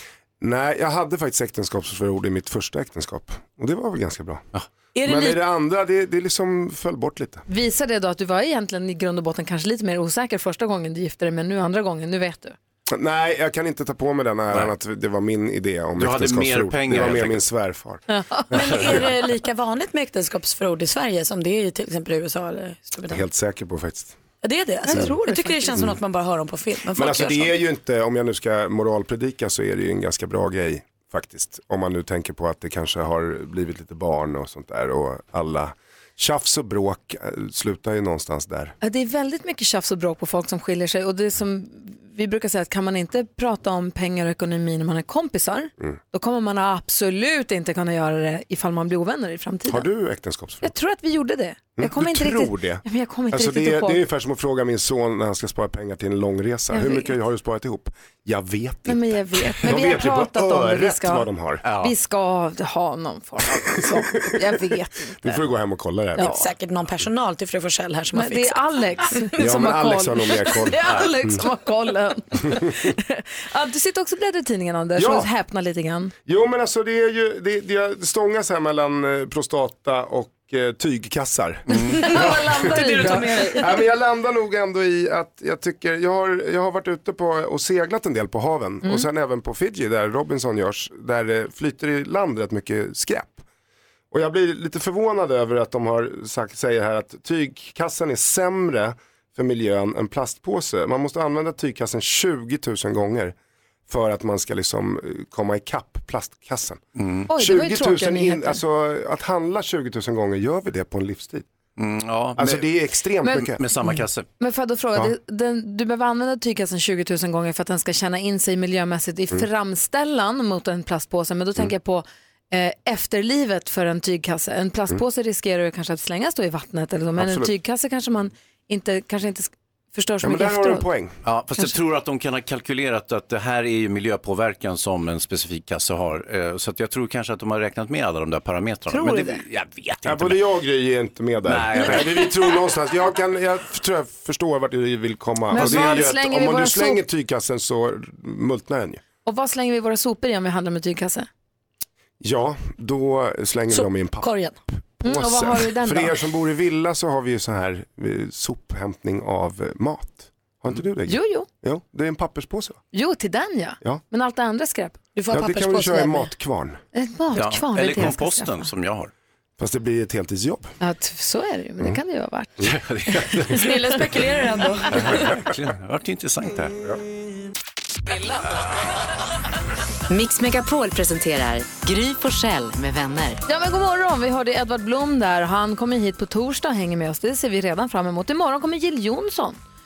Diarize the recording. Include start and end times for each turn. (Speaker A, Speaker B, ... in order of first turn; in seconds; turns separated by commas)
Speaker A: 0.4-4.5, Speaker B: 5.0-5.4, Speaker A: 5.0-7.5, Speaker C: 7.5-12.6, Speaker A: 12.9-18.0, Speaker D: 16.0-17.5, Speaker C: 18.1-18.5, Speaker B: 18.5-23.2, Speaker D: 18.7-19.1, Speaker A: 23.1-24.2, Speaker B: 24.4-27.6, Speaker C: 24.9-25.8, Speaker A: 26.9-38.7, Speaker C: 38.8-49.9, Speaker A: 49.7-50.7, Speaker C: 50.6-54.0, Speaker A: 51.8-61.6, Speaker C: 56.7-57.1, Speaker C: 58.9-65.4, Speaker D: 61.6-61.9, Speaker A: 63.6-64.7, Speaker A: 65.2-66.3, Speaker C: 66.2-66.5, Speaker B: 66.2-69.4, Speaker C: 68.1-76.1, Speaker A: 69.4-71.4, Speaker A: 75.0-75.3, Speaker A: 76.3-93.5, Speaker D: 81.7-82.1, Speaker C: 81.7-83.7, Speaker B: 81.9-83.8, Speaker A: 94.1-103.3, Speaker A: 103.9-106.8, Speaker D: 107.0-107.3, Speaker C: 107.3-108.6, Speaker A: 107.3-111.5, Speaker D: 111.8-112.7, Speaker A: 112.4-113.6, Speaker D: 113.2-114.3, Speaker C: 114.4-130.9, Speaker A: 127.2-127.5, Speaker A: 130.2-131.2, Speaker D: 131.2-140.5, Speaker C: 138.9-139.4, Speaker A: 140.1-149.0, Speaker D: 141.4-142.2, Speaker B: 141.9-142.4, Speaker C: 145.5-147.0, Speaker C: 149.2-151.3, Speaker A: 152.2-154.3, Speaker B: 153.7-154.6, Speaker A: 155.0-162.8, Speaker C: 155.0-156.2, Speaker C: 161.1-161.5, Speaker C: 162.9-165.0, Speaker B: 165.2-166.3, Speaker A: 165.3-166.8, Speaker C: 166.9-168.7, Speaker D: 167.3-169.1, Speaker A: 169.6-170.7, Speaker C: 170.8-173.7, Speaker D: 172.6-173.7, Speaker B: 173.5-175.3, Speaker D: 174.9-176.8, Speaker E: 180.1-183.4, Speaker C: 183.5-189.6